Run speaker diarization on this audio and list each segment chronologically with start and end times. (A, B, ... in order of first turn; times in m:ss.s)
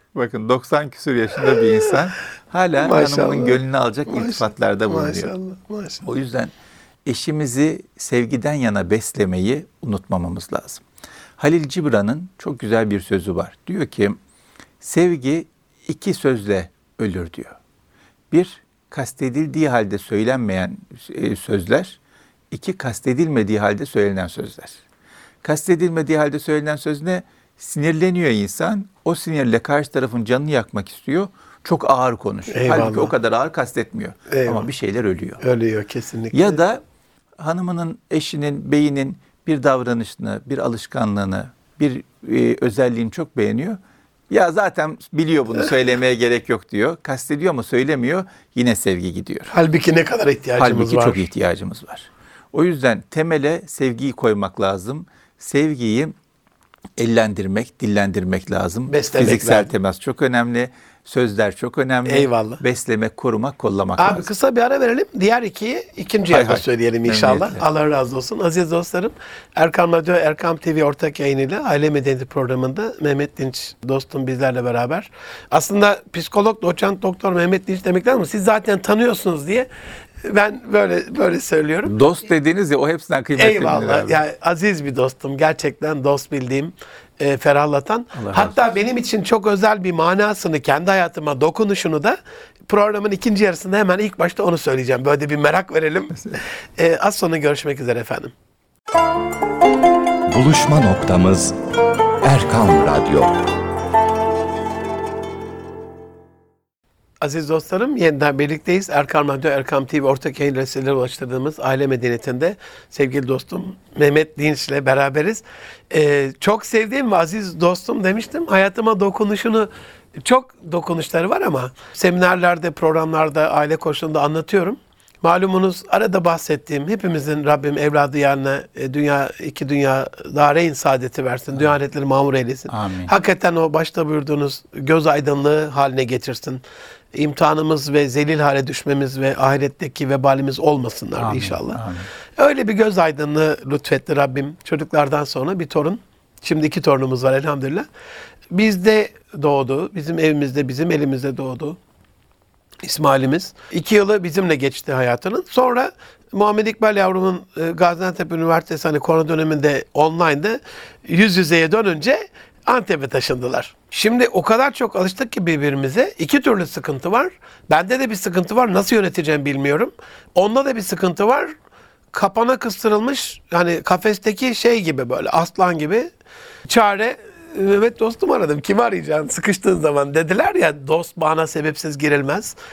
0:00.1-0:05.3 A
0:02.8-0:06.0 B
0:06.0-0:06.5 A
0:07.0-0:10.8 A
0:11.4-0:14.2 A
0:14.8-0:17.6 A
0:18.3-0:22.0 A
0:22.5-0:24.8 A
0:25.4-0:35.4 A
0:32.5-0:33.1 B
0:34.3-0:34.7 B
0:35.4-0:36.6 B
0:36.3-0:36.8 A
0:37.4-0:43.8 A
0:44.3-0:49.5 A
0:49.5-0:51.2 B
0:50.6-0:56.1 A
0:57.0-1:04.3 A
0:58.9-0:59.7 B
1:02.1-1:02.6 B
1:04.0-1:19.7 B
1:06.3-1:07.6 A
1:20.2-1:22.0 B
1:21.8-1:24.2 A
1:23.4-1:38.3 B
1:28.1-1:28.6 A
1:40.3-1:41.6 C
1:42.2-1:43.4 C
1:47.2-2:21.8 B
2:12.7-2:13.1 A
2:21.2-2:22.1 A
2:22.4-2:27.9 B
2:28.5-2:31.8 B
2:32.8-2:51.5 B
2:52.1-2:56.1 B
2:56.7-3:02.6 B